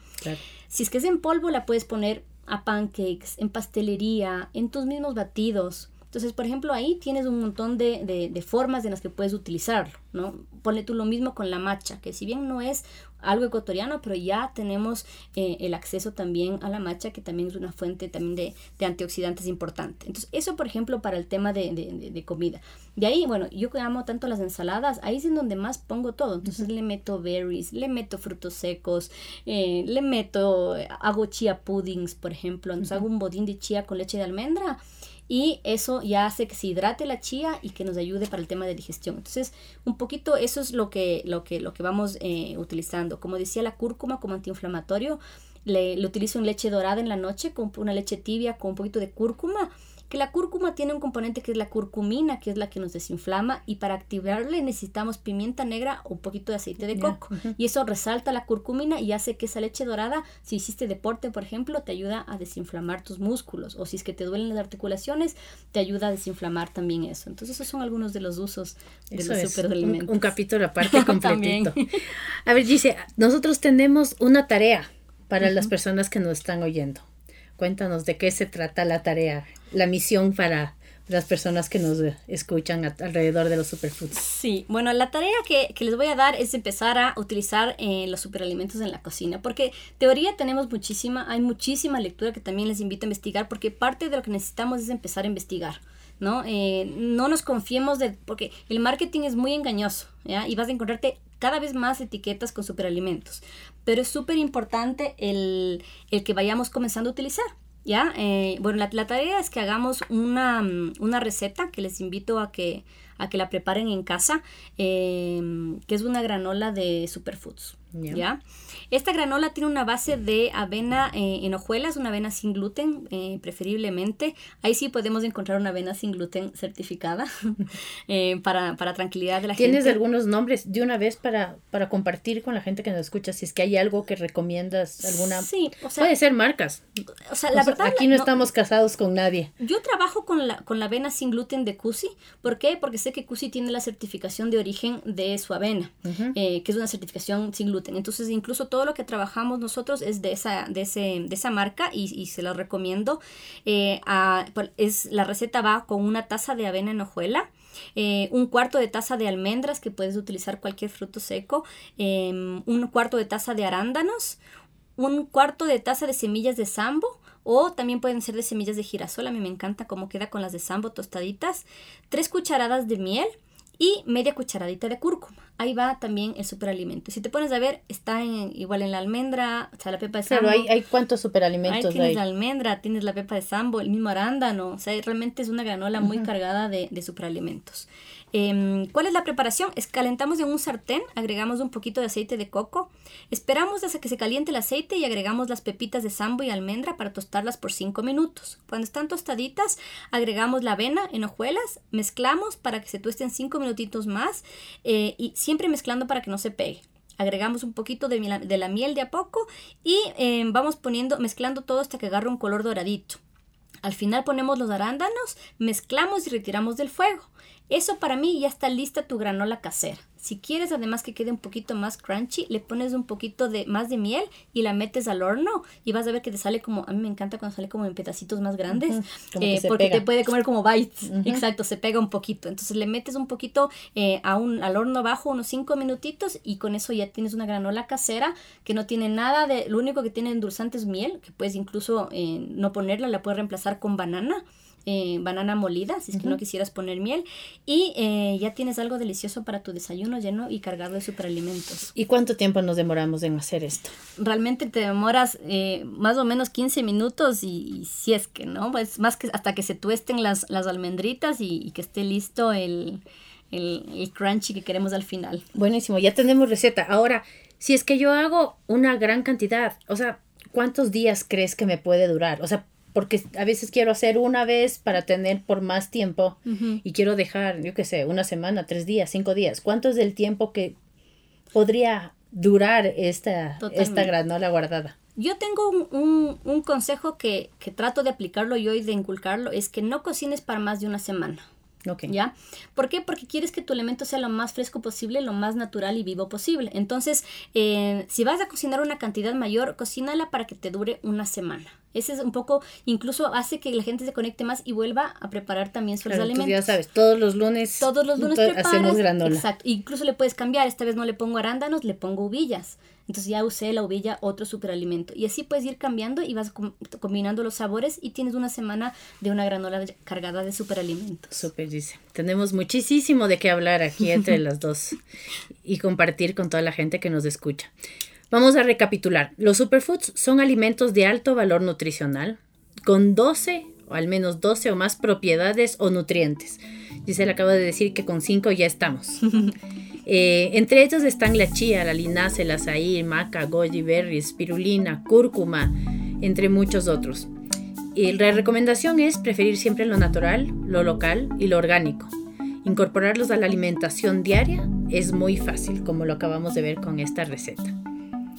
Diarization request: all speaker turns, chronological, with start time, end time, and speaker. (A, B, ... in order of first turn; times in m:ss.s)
0:00.7-1:10.3 A
0:57.0-0:57.5 B
1:09.1-1:17.1 B
1:10.8-1:12.1 A
1:17.6-1:24.2 B
1:24.2-2:10.0 A
1:57.9-1:58.2 B
2:09.6-2:16.9 B
2:15.0-2:16.1 A
2:17.3-2:18.5 A
2:17.5-2:19.5 B
2:19.6-2:44.4 A
2:26.0-2:26.3 B
2:45.0-3:00.7 A
3:00.3-3:02.2 B
3:01.7-3:33.2 A
3:33.8-4:11.9 A
3:48.7-3:50.0 B
3:51.1-3:51.4 B
4:12.0-4:13.9 B
4:14.2-4:23.0 A
4:23.5-4:25.4 A
4:25.6-4:40.8 B
4:36.5-4:36.8 A
4:41.5-4:45.0 B
4:43.6-4:44.1 A
4:45.2-4:51.4 A
4:51.9-4:52.1 B
4:52.1-5:06.8 A
5:06.1-5:09.4 B
5:07.8-5:21.5 A
5:21.3-5:25.0 B
5:25.6-5:27.7 B
5:28.3-5:39.2 B
5:40.1-5:47.3 B
5:48.0-5:52.1 B
5:52.6-5:57.8 B